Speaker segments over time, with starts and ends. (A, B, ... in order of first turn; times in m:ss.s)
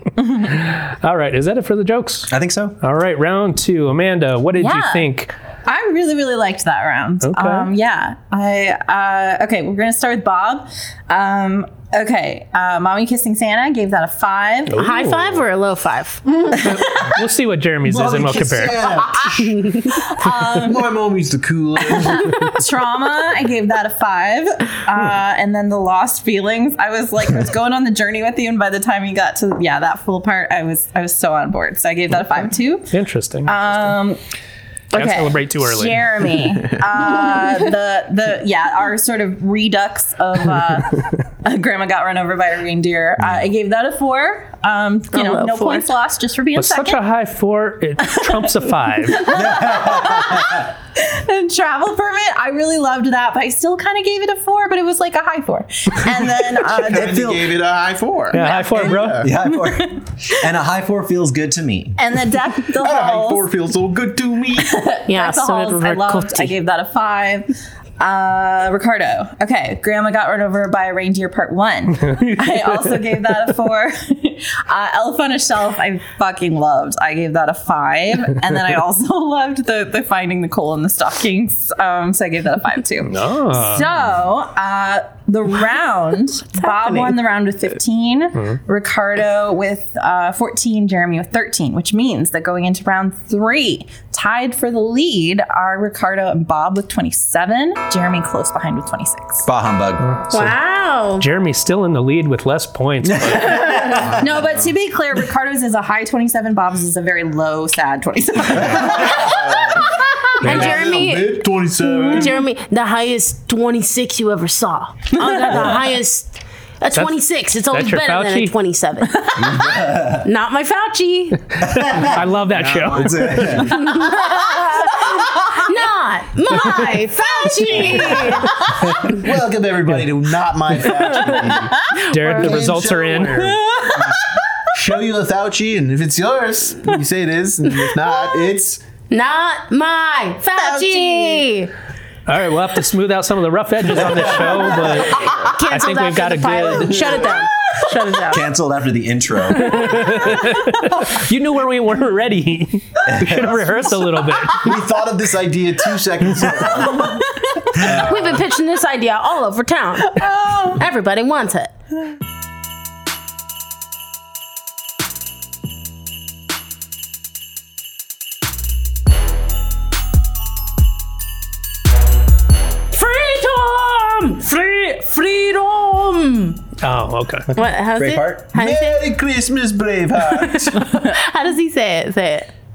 0:00.4-0:05.3 A
0:02.3-0:02.8 B
0:04.6-0:05.1 C
0:05.6-0:14.8 C
0:07.2-0:07.7 A
0:14.7-0:15.4 A
0:14.8-0:16.3 D
0:16.5-0:17.1 C
0:16.6-0:19.0 A
0:17.8-0:19.4 E
0:19.0-0:21.0 C
0:19.4-0:19.9 D
0:20.3-0:22.4 E
0:21.9-0:34.2 C
0:32.9-0:33.5 A
0:34.9-0:47.0 C
0:34.9-0:36.1 A
0:45.1-0:45.9 D
0:46.6-0:49.3 A
0:49.1-0:57.3 C
0:49.3-0:50.7 B
0:56.7-0:59.3 E
0:56.8-0:57.5 B
0:58.3-0:59.3 A
0:58.4-0:58.8 C
0:59.2-1:02.0 B
0:59.5-0:59.9 C
1:02.0-1:03.5 C
1:02.8-1:04.8 E
1:04.5-1:39.5 C
1:05.1-1:06.5 D
1:12.1-1:12.6 A
1:23.0-1:23.9 A
1:39.4-1:40.1 B
1:40.0-1:40.5 A
1:40.3-1:41.2 D
1:41.2-1:44.1 A
1:43.0-1:44.2 B
1:44.2-1:49.8 C
1:48.7-1:49.1 B
1:49.0-1:52.4 E
1:50.4-1:51.4 D
1:50.4-1:50.8 A
1:52.0-2:01.4 D
1:57.7-1:58.5 A
1:59.4-2:00.2 B
2:01.6-2:03.8 B
2:01.7-2:03.8 A
2:02.9-2:03.6 E
2:03.7-2:08.7 D
2:08.0-2:08.3 E
2:09.0-2:18.8 E
2:12.1-2:13.6 A
2:12.1-2:12.5 D
2:13.7-2:14.2 C
2:19.1-2:21.7 D
2:20.6-2:21.4 C
2:22.3-2:27.3 A
2:23.9-2:25.3 B
2:25.2-2:28.5 D
2:28.3-2:30.2 B
2:29.6-2:34.8 A
2:33.0-2:33.8 B
2:34.6-2:37.2 E
2:36.4-2:36.9 B
2:36.9-2:37.9 C
2:37.8-2:38.0 B
2:37.8-2:41.7 D
2:40.1-2:40.8 C
2:52.9-2:56.6 D
2:56.8-2:57.5 A
2:57.5-2:59.0 D
2:58.0-2:58.4 B
2:58.5-3:01.0 E
3:00.4-3:02.5 D